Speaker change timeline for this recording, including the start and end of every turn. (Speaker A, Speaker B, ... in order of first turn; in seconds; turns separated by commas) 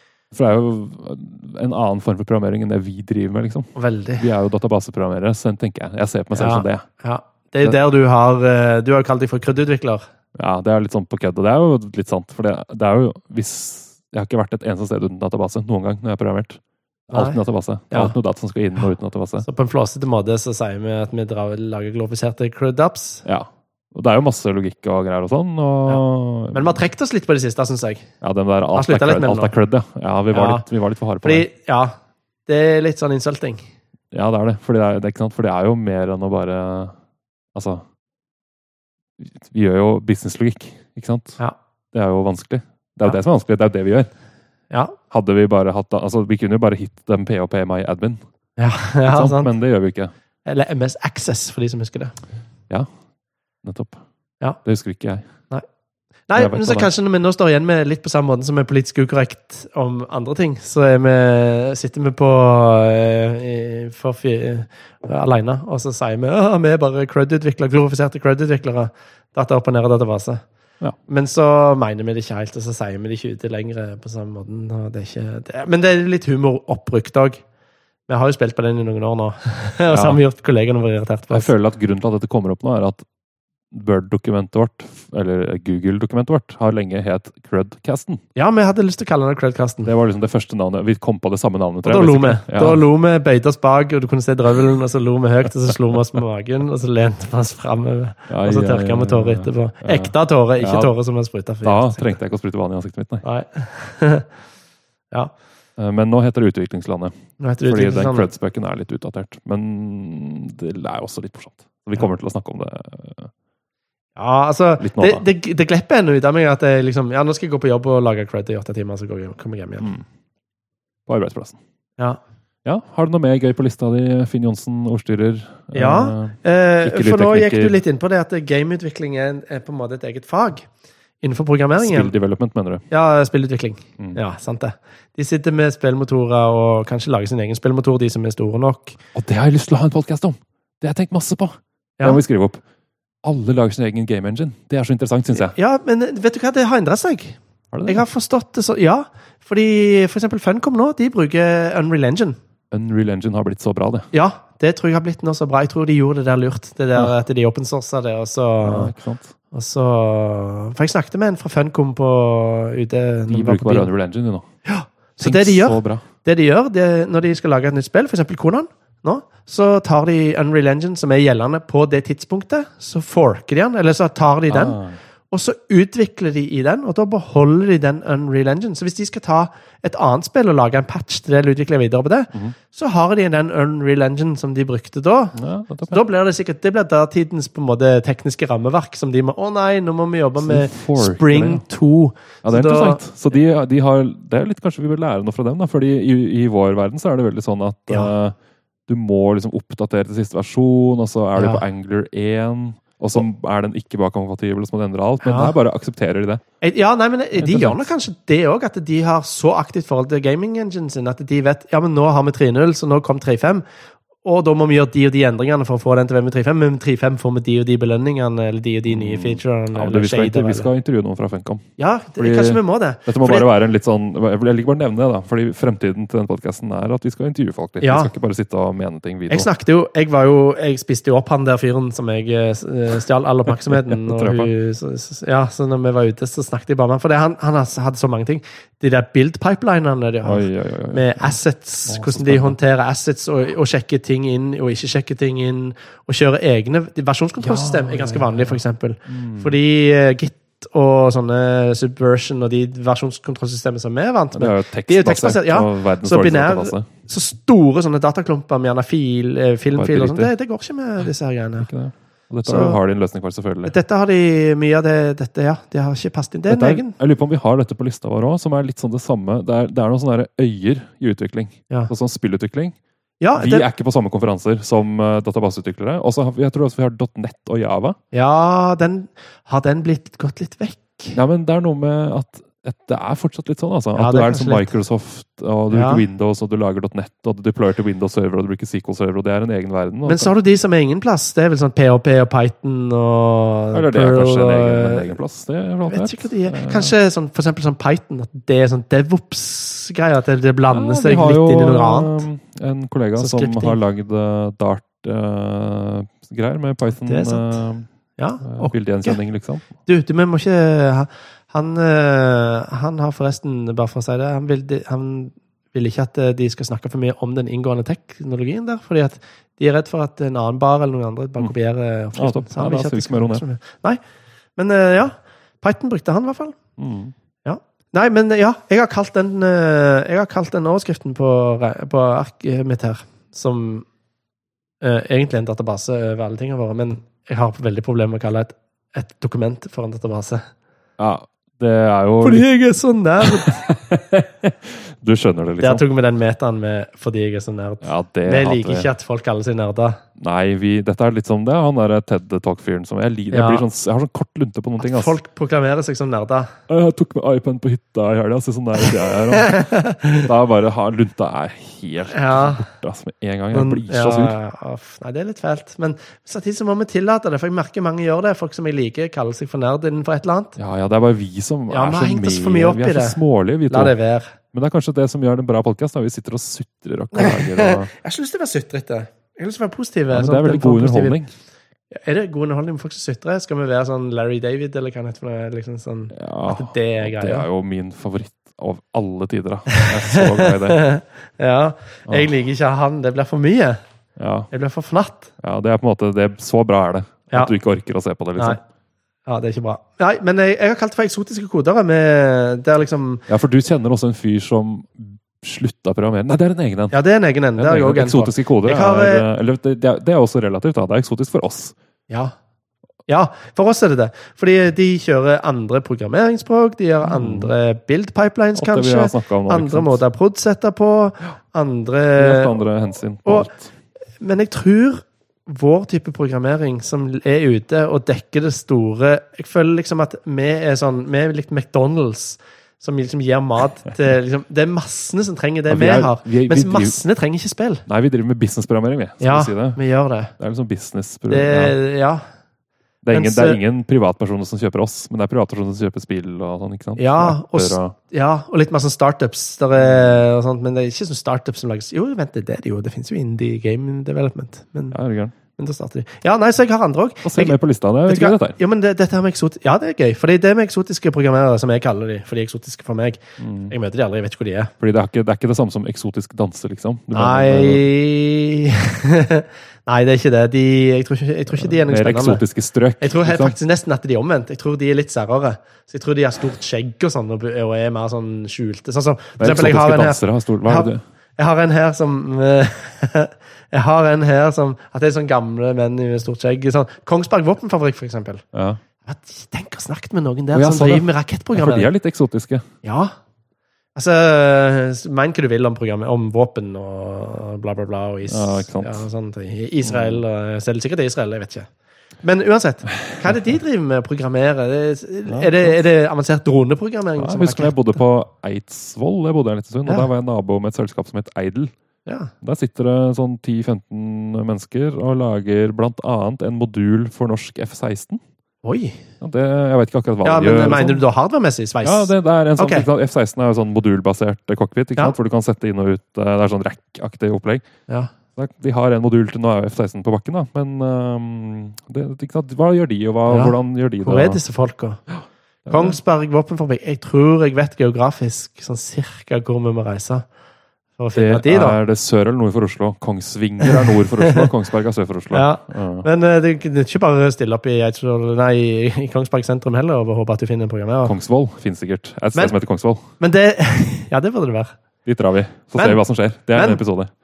Speaker A: 0.3-6.9, Speaker B: 3.8-4.3, Speaker B: 6.3-10.1, Speaker A: 10.4-16.6, Speaker B: 17.1-17.4, Speaker A: 17.1-19.5, Speaker B: 19.4-23.2, Speaker A: 23.2-26.8, Speaker B: 25.9-28.1, Speaker A: 28.2-31.5, Speaker B: 28.8-29.5, Speaker B: 30.3-30.7, Speaker B: 31.2-32.0, Speaker B: 32.5-33.6, Speaker A: 34.1-37.0, Speaker A: 37.5-37.9, Speaker A: 39.2-41.4, Speaker A: 41.9-44.1, Speaker A: 45.1-48.2, Speaker B: 48.6-49.5, Speaker A: 49.0-50.1, Speaker B: 50.5-52.1, Speaker A: 53.6-54.0, Speaker A: 54.6-55.3, Speaker B: 56.3-70.4, Speaker A: 56.4-56.9, Speaker B: 71.1-77.4, Speaker B: 78.1-81.5, Speaker A: 79.9-80.2, Speaker A: 81.3-83.0, Speaker A: 83.7-88.2, Speaker B: 88.4-89.9, Speaker A: 89.8-92.8, Speaker B: 91.8-102.2, Speaker A: 98.3-100.9, Speaker A: 101.6-103.2, Speaker B: 103.2-104.3, Speaker A: 105.8-107.1, Speaker B: 107.4-108.3, Speaker A: 107.7-113.3, Speaker B: 114.2-119.9, Speaker A: 114.8-115.2, Speaker A: 119.8-120.0, Speaker A: 121.1-121.6, Speaker A: 122.7-127.8, Speaker B: 125.7-130.7, Speaker B: 131.2-132.1, Speaker A: 131.8-132.8, Speaker B: 132.9-139.0, Speaker A: 139.2-142.6, Speaker A: 143.2-145.5, Speaker B: 145.3-152.4, Speaker A: 147.7-148.0, Speaker A: 152.7-154.1, Speaker B: 154.1-158.9, Speaker A: 158.6-159.3, Speaker B: 159.5-163.9, Speaker A: 163.3-164.5, Speaker B: 164.7-174.8, Speaker A: 165.2-166.0, Speaker A: 174.5-175.0, Speaker B: 175.3-185.4, Speaker A: 185.3-186.0, Speaker B: 185.9-193.0, Speaker A: 190.4-191.6, Speaker A: 192.4-198.4, Speaker A: 198.9-206.4, Speaker B: 201.4-201.6, Speaker B: 205.2-205.5, Speaker B: 206.6-213.6, Speaker A: 207.4-207.8, Speaker B: 214.2-220.7, Speaker A: 218.9-221.7, Speaker B: 221.8-223.5, Speaker A: 222.2-229.5, Speaker B: 227.8-228.1, Speaker B: 229.3-261.7, Speaker A: 233.6-234.5, Speaker A: 240.2-242.6, Speaker A: 247.4-249.6, Speaker A: 254.3-256.9, Speaker A: 259.7-260.3, Speaker A: 261.6-263.8, Speaker B: 262.4-262.8, Speaker B: 263.6-266.9, Speaker A: 266.5-272.8, Speaker B: 273.2-273.7, Speaker A: 273.3-278.0, Speaker B: 278.1-281.2, Speaker A: 281.1-290.3, Speaker B: 284.0-284.7, Speaker B: 285.7-286.0, Speaker B: 290.1-295.1, Speaker A: 293.7-296.9, Speaker B: 295.9-302.2, Speaker A: 300.7-307.9, Speaker B: 303.2-303.8, Speaker B: 306.9-307.6, Speaker B: 308.2-309.2, Speaker A: 308.4-309.7, Speaker B: 309.9-324.0, Speaker A: 322.1-323.4, Speaker B: 324.6-326.6, Speaker A: 326.8-327.1, Speaker B: 327.4-333.9, Speaker B: 334.8-340.5, Speaker A: 341.0-342.5, Speaker B: 342.2-343.5, Speaker A: 343.2-345.8, Speaker B: 345.6-350.0, Speaker A: 347.8-348.9, Speaker A: 350.2-355.2, Speaker B: 353.3-353.6, Speaker B: 354.8-356.5, Speaker A: 356.7-364.4, Speaker B: 358.9-360.3, Speaker B: 362.1-362.6, Speaker B: 363.5-370.6, Speaker A: 370.6-373.9, Speaker B: 371.7-374.4, Speaker A: 374.5-377.9, Speaker B: 377.1-381.2, Speaker A: 380.1-381.3, Speaker B: 381.9-387.5, Speaker A: 386.1-390.9, Speaker B: 389.7-393.8, Speaker A: 394.2-394.5, Speaker B: 394.5-395.3, Speaker A: 395.4-398.6, Speaker B: 399.3-403.3, Speaker A: 403.3-407.0, Speaker B: 406.9-409.3, Speaker A: 407.6-411.7, Speaker B: 412.1-412.4, Speaker B: 413.1-422.6, Speaker A: 417.0-417.5, Speaker A: 418.6-420.0, Speaker A: 422.2-423.7, Speaker B: 424.2-437.8, Speaker A: 435.7-437.0, Speaker A: 437.9-439.8, Speaker B: 439.2-440.3, Speaker A: 440.4-441.8, Speaker B: 441.3-442.2, Speaker A: 443.0-447.9, Speaker B: 443.1-443.6, Speaker B: 447.0-455.0, Speaker A: 449.8-450.2, Speaker A: 454.9-455.4, Speaker B: 455.6-464.7, Speaker A: 457.2-458.6, Speaker A: 463.4-463.7, Speaker A: 464.8-467.9, Speaker B: 467.1-472.4, Speaker A: 471.5-473.6, Speaker B: 473.0-488.4, Speaker A: 479.4-481.0, Speaker A: 488.5-488.8, Speaker B: 489.0-491.9, Speaker A: 490.5-492.7, Speaker B: 492.8-493.1, Speaker B: 493.9-501.7, Speaker A: 498.3-499.0, Speaker A: 499.8-500.2, Speaker B: 502.2-508.0, Speaker A: 502.9-503.5, Speaker A: 505.3-505.8, Speaker A: 507.2-511.7, Speaker B: 512.1-512.3, Speaker A: 512.4-518.2, Speaker B: 518.6-519.0, Speaker A: 519.2-521.0, Speaker B: 520.2-522.9, Speaker A: 521.8-527.7, Speaker A: 528.4-534.4, Speaker B: 533.3-535.0, Speaker A: 535.7-536.0, Speaker B: 535.7-540.3, Speaker B: 541.0-541.8, Speaker A: 541.1-546.1, Speaker B: 543.6-544.5, Speaker B: 545.3-551.1, Speaker A: 551.0-553.1, Speaker B: 553.2-554.8, Speaker A: 555.0-557.1, Speaker B: 555.8-556.0, Speaker B: 556.5-556.8